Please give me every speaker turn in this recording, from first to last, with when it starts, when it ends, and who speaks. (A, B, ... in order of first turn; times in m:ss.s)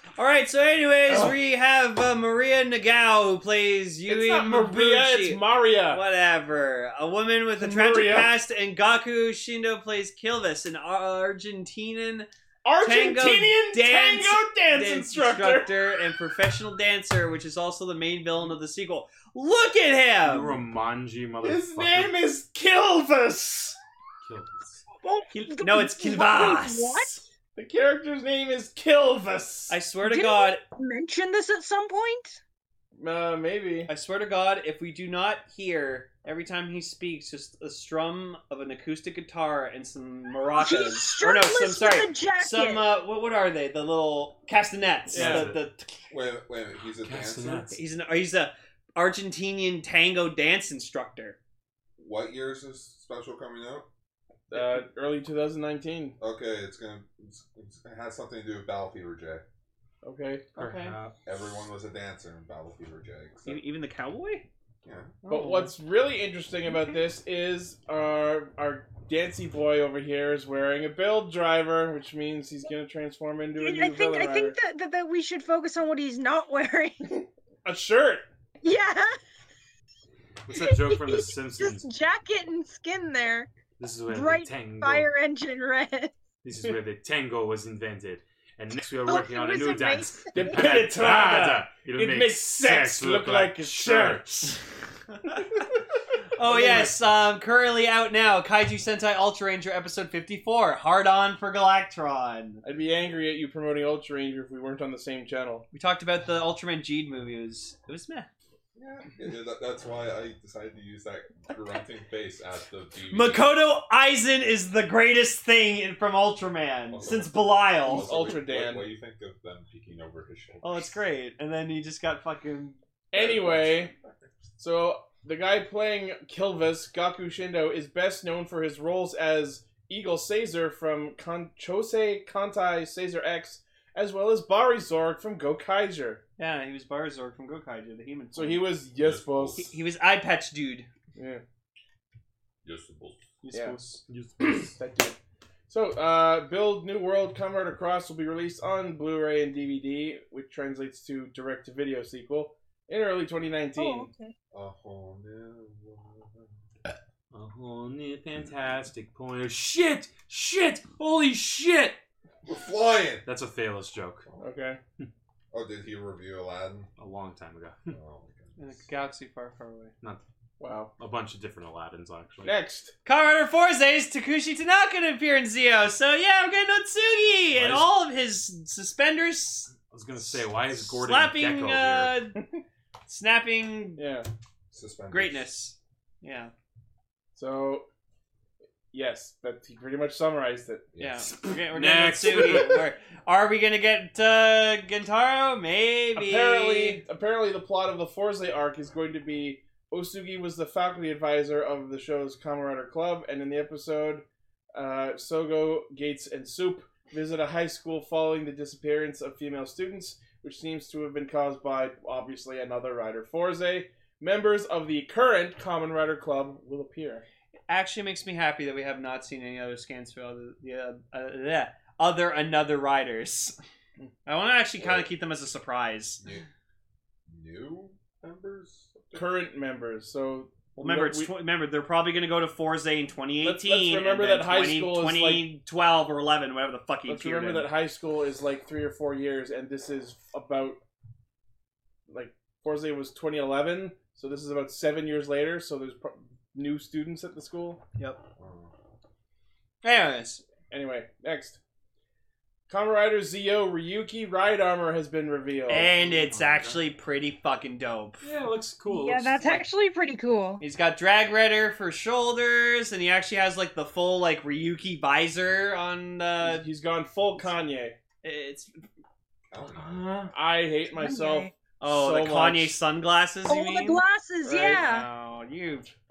0:00.2-0:12.3 A
0:01.1-0:01.4 B
0:04.1-0:06.0 B
0:07.6-0:08.4 B
0:12.6-0:15.9 B
0:12.8-0:20.6 A
0:20.2-0:22.2 C
0:21.4-0:23.8 B
0:24.2-0:24.8 C
0:25.0-0:27.2 D
0:25.3-0:27.2 A
0:27.6-0:29.8 B
0:29.7-0:30.6 A
0:30.0-0:32.4 D
0:33.0-0:33.9 B
0:33.9-0:46.1 A
0:40.6-0:42.9 D
0:45.1-0:45.5 B
0:45.1-0:45.6 C
0:46.1-0:47.7 E
0:47.0-0:47.8 C
0:47.7-0:51.4 A
0:52.0-0:53.9 E
0:54.5-0:56.2 B
0:56.2-0:59.4 E
1:00.0-1:00.4 B
1:00.6-1:01.0 A
1:00.6-1:01.1 C
1:01.2-1:03.6 E
1:03.4-1:04.5 A
1:04.8-1:05.2 E
1:05.2-1:05.7 A
1:05.3-1:14.6 B
1:13.6-1:17.2 D
1:17.6-1:18.2 B
1:18.6-1:19.2 D
1:20.5-1:21.8 C
1:20.5-1:23.5 D
1:23.8-1:25.1 C
1:24.1-1:26.1 D
1:26.4-1:34.6 C
1:29.0-1:30.7 D
1:30.4-1:34.5 B
1:36.3-1:42.6 A
1:36.5-1:36.9 B
1:42.6-1:45.6 B
1:45.7-1:48.3 A
1:48.7-1:53.5 E
1:53.1-1:58.1 A
1:56.9-2:01.0 E
1:57.8-1:58.8 B
2:00.6-2:02.8 A
2:03.1-2:03.9 B
2:03.1-2:04.4 E
2:04.6-2:16.2 B
2:16.4-2:18.7 A
2:18.3-2:19.7 B
2:19.0-2:19.7 E
2:19.5-2:20.9 A
2:21.2-2:21.4 B
2:22.6-2:23.2 E
2:23.4-2:24.0 B
2:23.5-2:24.8 C
2:24.6-2:25.2 B
2:25.7-2:34.1 B
2:33.8-2:34.3 D
2:34.5-2:36.6 E
2:37.3-2:42.0 C
2:42.4-2:43.2 E
2:43.2-2:44.2 C
2:44.4-2:44.8 B
2:45.5-2:46.9 E
2:47.0-2:47.9 C
2:47.9-2:48.8 E
2:48.6-2:49.9 A
2:50.6-2:50.9 B
2:51.0-2:52.6 C
2:52.4-2:52.9 B
2:53.0-2:59.7 A
2:57.5-2:57.9 C
2:59.9-3:02.1 C
3:00.8-3:02.4 A
3:03.1-3:04.1 A
3:04.0-3:04.3 B
3:04.7-3:05.5 E
3:05.1-3:06.5 A
3:07.4-3:07.8 B
3:08.9-3:10.8 B
3:10.9-3:11.4 E
3:11.0-3:17.0 A
3:11.7-3:12.8 C
3:16.1-3:24.2 B
3:24.7-3:37.2 B
3:37.7-3:43.6 A
3:44.2-3:46.2 A
3:44.8-3:45.1 E
3:47.3-3:49.3 E
3:49.1-3:51.3 B
3:50.8-3:57.7 A
3:53.4-3:55.4 B
3:57.1-4:00.8 B
4:02.1-4:07.8 B
4:08.4-4:08.7 E
4:09.8-4:10.4 A
4:10.7-4:11.6 B
4:12.7-4:15.9 B
4:15.7-4:18.2 A
4:15.7-4:16.8 C
4:18.2-4:19.6 C
4:18.9-4:20.6 D
4:20.6-4:26.6 A
4:26.4-4:28.0 B
4:28.2-4:28.7 A
4:29.5-4:30.1 E
4:29.7-4:30.3 C
4:30.3-4:32.8 B
4:30.9-4:31.5 D
4:31.8-4:35.9 A
4:33.5-4:35.1 D
4:34.4-4:34.8 B